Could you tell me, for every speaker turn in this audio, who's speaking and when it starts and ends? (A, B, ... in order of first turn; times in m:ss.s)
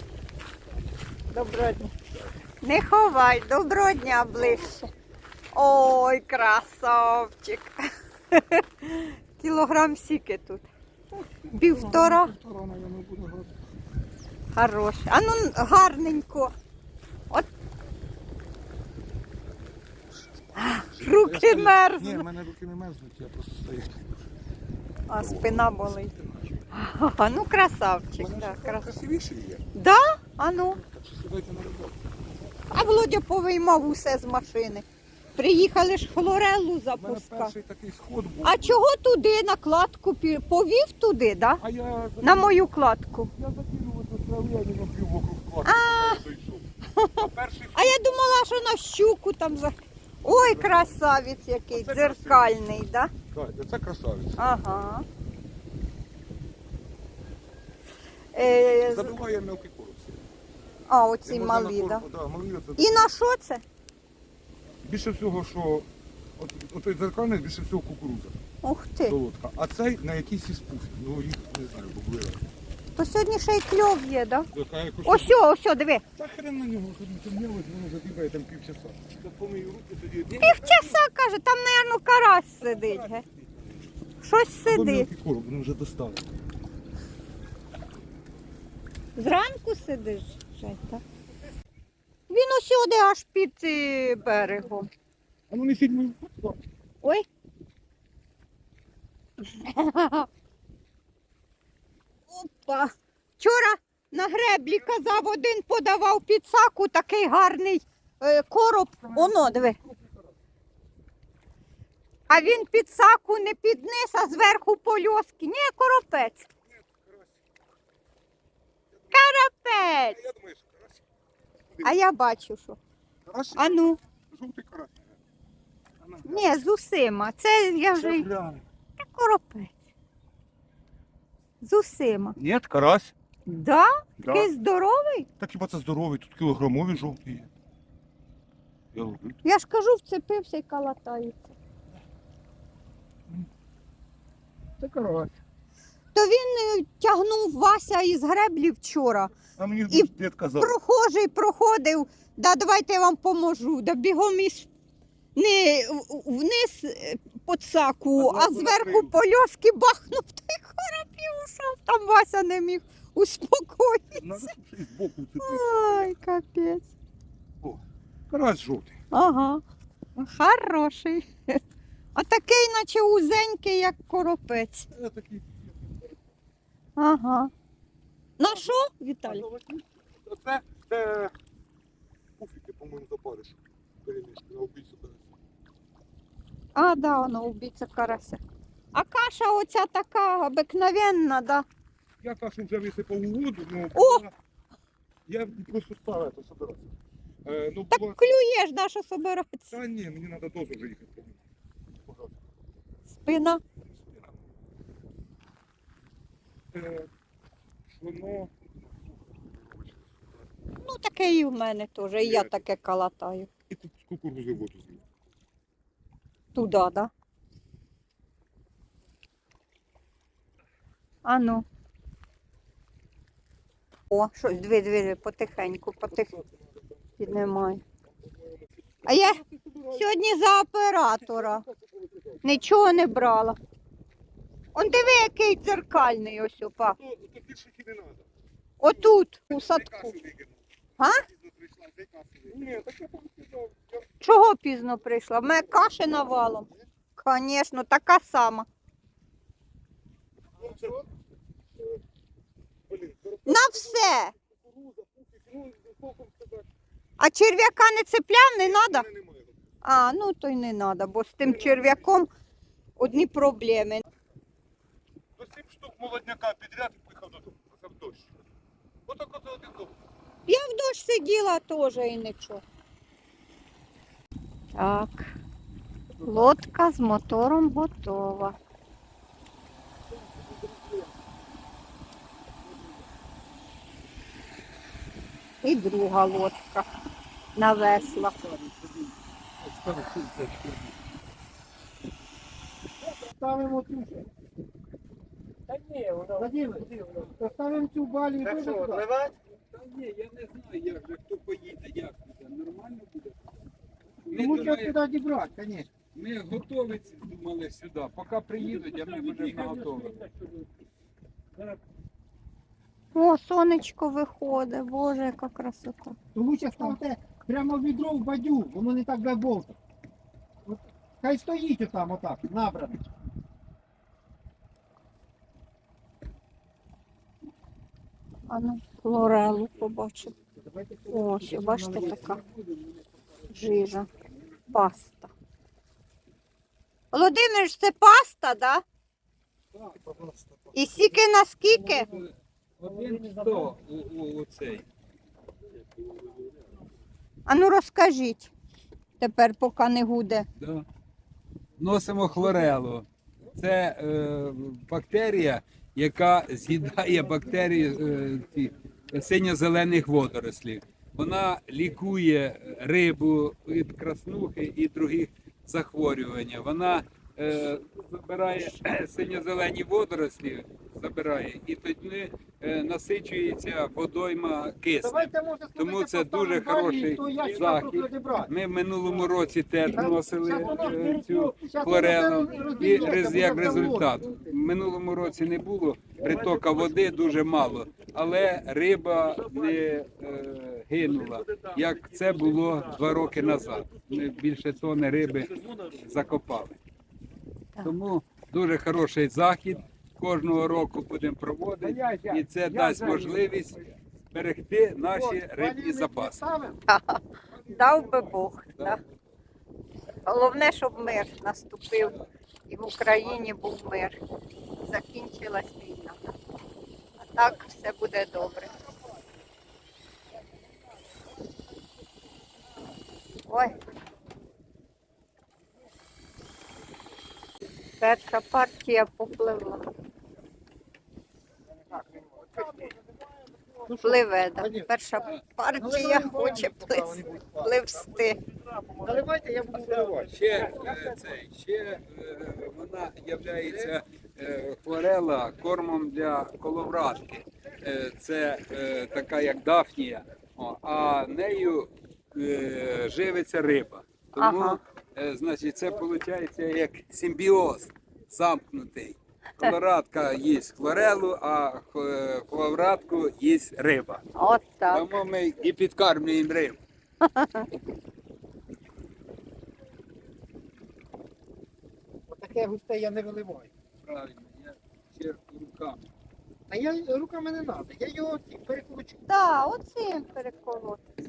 0:01.3-0:01.9 A
0:02.6-0:04.9 A
0:05.5-0:07.7 A
0:08.3-0:10.7 A
0:11.5-0:12.3 A
0:11.6-0:13.6 B
0:14.5-0:16.5 A
0:20.4-0:24.0 B
0:20.6-0:22.3 A
0:25.1-0:26.2 A
0:25.1-0:26.6 B
0:26.7-0:28.9 A
0:28.2-0:29.7 B
0:29.8-0:30.8 A
0:30.8-0:32.0 B
0:32.7-0:34.8 A
0:35.4-0:37.6 A
0:37.0-0:38.8 B
0:38.4-0:41.6 A
0:41.6-0:42.6 B
0:42.2-0:43.3 A
0:43.4-0:48.3 B
0:45.6-0:46.2 A
0:47.0-0:53.1 A
0:50.3-0:50.9 B
0:51.7-0:52.5 B
0:53.3-0:54.4 B
0:54.4-0:55.0 A
0:58.3-0:59.2 A
0:58.8-1:00.2 B
1:00.9-1:02.0 A
1:01.2-1:03.1 B
1:02.8-1:03.6 A
1:04.8-1:08.4 B
1:08.6-1:09.2 A
1:09.1-1:12.5 B
1:13.0-1:14.5 A
1:14.5-1:15.4 B
1:15.0-1:16.0 A
1:16.2-1:21.0 B
1:20.4-1:23.2 A
1:22.7-1:23.8 B
1:24.2-1:25.1 A
1:24.7-1:26.3 B
1:29.2-1:31.0 A
1:32.3-1:34.9 A
1:35.5-1:36.6 B
1:39.4-1:40.3 A
1:42.3-1:49.8 A
1:52.3-1:56.5 A
1:56.7-1:57.4 B
1:59.1-2:00.2 A
2:00.0-2:01.0 B
2:01.7-2:02.0 B
2:01.8-2:02.8 A
2:03.3-2:05.2 B
2:03.5-2:04.0 A
2:06.0-2:06.5 B
2:06.2-2:08.3 A
2:08.0-2:08.6 B
2:09.0-2:09.8 A
2:11.6-2:12.4 A
2:12.4-2:13.1 B
2:13.5-2:15.3 A
2:14.2-2:14.5 B
2:15.4-2:17.5 B
2:18.9-2:19.4 B
2:19.4-2:21.6 A
2:24.8-2:25.3 C
2:26.1-2:29.3 A
2:29.6-2:30.8 B
2:29.9-2:34.7 A
2:35.4-2:44.5 A
2:38.2-2:39.1 B
2:44.2-2:46.2 B
2:45.4-2:46.9 A
2:47.6-2:49.0 B
2:49.1-2:49.6 A
2:50.2-2:51.6 A
2:52.2-2:54.9 A
2:54.9-2:55.9 B
2:57.0-2:57.5 A
2:58.4-2:59.5 A
2:59.2-3:01.3 B
3:02.4-3:05.3 B
3:06.8-3:08.4 A
3:08.9-3:11.7 A
3:12.2-3:14.3 B
3:13.9-3:14.2 A
3:15.3-3:16.9 B
3:17.4-3:18.4 B
3:17.9-3:19.8 A
3:19.7-3:21.4 B
3:22.0-3:22.4 B
3:23.1-3:23.6 A
3:23.9-3:24.4 B
3:26.7-3:27.1 B
3:27.9-3:28.5 B
3:29.1-3:30.4 B
3:30.8-3:33.5 A
3:32.2-3:32.5 B
3:33.7-3:35.0 B
3:36.5-3:37.1 A
3:41.2-3:41.6 A
3:44.1-3:46.3 A
3:46.4-3:47.0 B
3:47.2-3:47.8 A
3:48.3-3:50.1 B
3:49.1-3:49.4 A
3:49.9-3:51.7 A
3:51.3-3:52.4 B
3:52.4-3:53.6 A
3:54.8-3:57.0 A
3:57.0-3:58.3 B
3:58.8-4:00.2 A
3:59.5-4:00.6 B
4:01.0-4:01.2 A
4:01.3-4:04.1 B
4:04.2-4:08.7 A
4:10.6-4:11.0 B
4:12.9-4:16.7 B
4:13.5-4:14.3 A
4:17.2-4:19.1 A
4:18.6-4:19.6 B
4:19.8-4:22.3 A
4:21.4-4:22.0 B
4:23.0-4:24.0 A
4:25.4-4:28.4 B
4:29.1-4:29.9 B
4:30.5-4:32.6 A
4:34.7-4:35.3 A
4:36.2-4:38.6 A
4:45.6-4:46.9 A
4:47.6-4:48.4 A
4:49.8-4:50.9 B
4:53.1-4:54.3 C
4:55.9-4:56.2 D
4:56.3-4:59.1 C
4:59.7-5:03.5 D
5:04.2-5:05.0 D
5:04.3-5:05.9 C
5:06.1-5:10.3 D
5:13.2-5:16.2 A
5:16.3-5:19.8 C
5:20.7-5:23.1 C
5:28.5-5:30.4 A
5:30.6-5:32.4 C
5:31.1-5:32.4 A
5:33.5-5:34.1 A
5:34.7-5:35.3 A
5:37.1-5:38.8 A
5:40.0-5:40.6 B
5:40.7-5:42.1 A
5:42.1-5:44.8 D
5:47.5-5:48.5 A
5:49.2-5:50.5 A
5:50.6-5:50.9 D
5:51.8-6:36.8 D
6:15.0-6:18.5 C
6:19.9-6:24.1 C
6:37.8-6:46.4 D
6:41.9-6:42.5 C
6:43.1-6:43.4 B
6:45.1-6:46.8 C
6:46.9-6:49.0 A
6:50.2-6:54.2 A
6:54.8-6:56.3 A
6:57.2-6:58.8 A
7:03.5-7:03.8 A
7:08.0-7:09.9 A
7:11.9-7:12.9 C
7:13.8-7:14.9 C
7:13.9-7:18.4 A
7:15.8-7:17.8 C
7:19.0-7:20.4 C
7:20.3-7:44.2 D
7:34.4-7:34.8 A
7:44.4-7:45.1 A
7:44.9-7:46.8 D
7:47.2-7:47.7 A
7:52.3-7:53.7 C
7:54.0-7:56.0 D
7:56.7-7:59.2 C
7:59.3-8:01.1 A